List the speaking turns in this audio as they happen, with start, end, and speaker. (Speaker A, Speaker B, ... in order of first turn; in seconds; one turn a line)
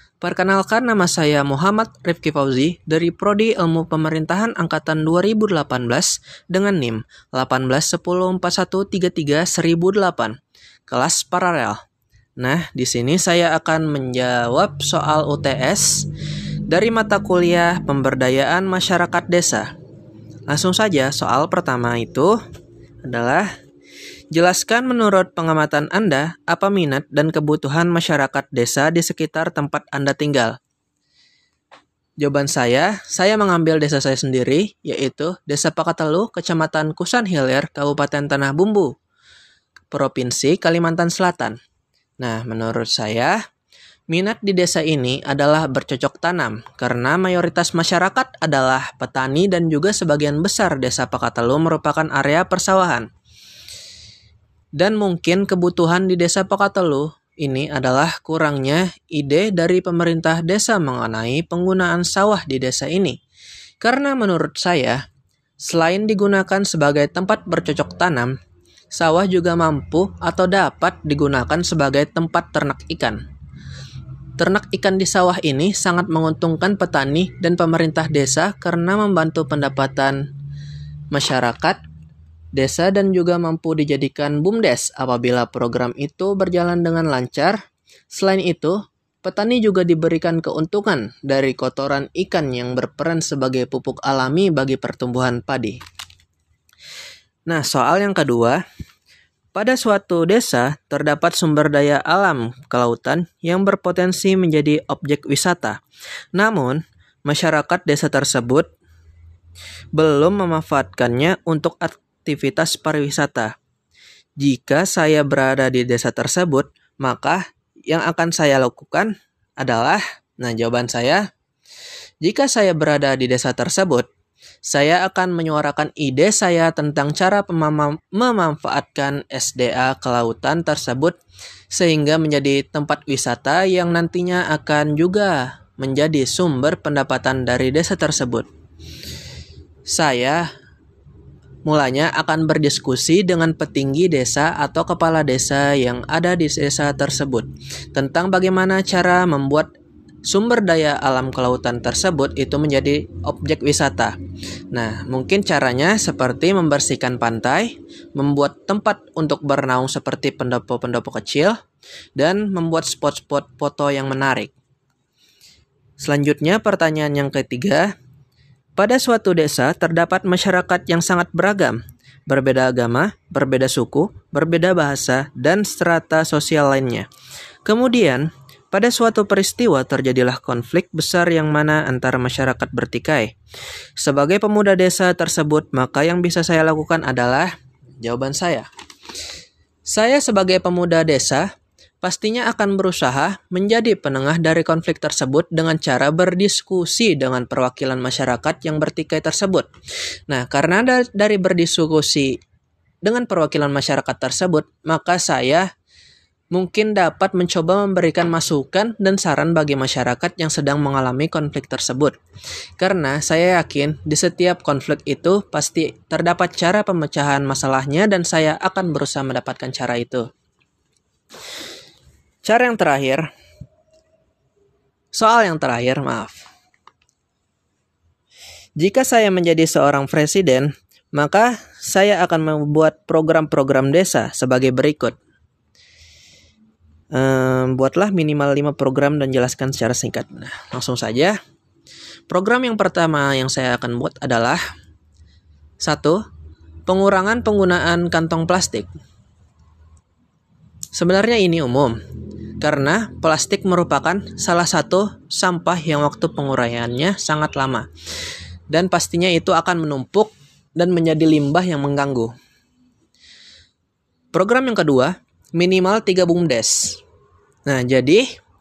Speaker A: 0.2-10.3
Speaker A: 10.9-11.8
Speaker A: 12.4-16.1
Speaker A: 16.7-19.7
Speaker A: 20.5-22.4
Speaker A: 23.0-23.5
Speaker A: 24.3-30.6
Speaker A: 32.2-38.9
Speaker A: 39.9-41.5
Speaker A: 42.2-43.4
Speaker A: 44.1-53.1
Speaker A: 54.8-63.2
Speaker A: 63.8-65.0
Speaker A: 65.6-68.3
Speaker A: 68.9-73.2
Speaker A: 74.4-80.3
Speaker A: 81.1-81.8
Speaker A: 82.5-87.6
Speaker A: 88.1-95.8
Speaker A: 97.5-98.6
Speaker A: 99.5-105.8
Speaker A: 106.3-108.7
Speaker A: 109.9-113.5
Speaker A: 114.4-121.2
Speaker A: 122.2-124.1
Speaker A: 124.7-131.2
Speaker A: 131.7-138.5
Speaker A: 139.9-140.5
Speaker A: 141.7-149.7
Speaker A: 150.2-154.2
Speaker A: 154.7-161.6
Speaker A: 162.2-164.5
Speaker A: 166.0-167.9
Speaker A: 168.8-177.1
Speaker A: 177.7-183.3
Speaker A: 184.0-188.7
Speaker A: 189.9-191.5
Speaker A: 192.0-199.7
Speaker A: 200.3-202.4
Speaker A: 203.0-205.7
Speaker A: 206.5-212.2
Speaker A: 212.8-220.3
Speaker A: 222.4-223.3
Speaker A: 225.1-226.4
Speaker A: 228.8-235.2
Speaker A: 237.1-241.4
Speaker A: 242.3-244.6
Speaker A: 245.8-246.2
Speaker A: 246.9-248.9
Speaker A: 250.9-251.9
Speaker A: 252.6-257.9
Speaker A: 258.7-262.3
Speaker A: 264.3-267.0
Speaker A: 267.7-268.3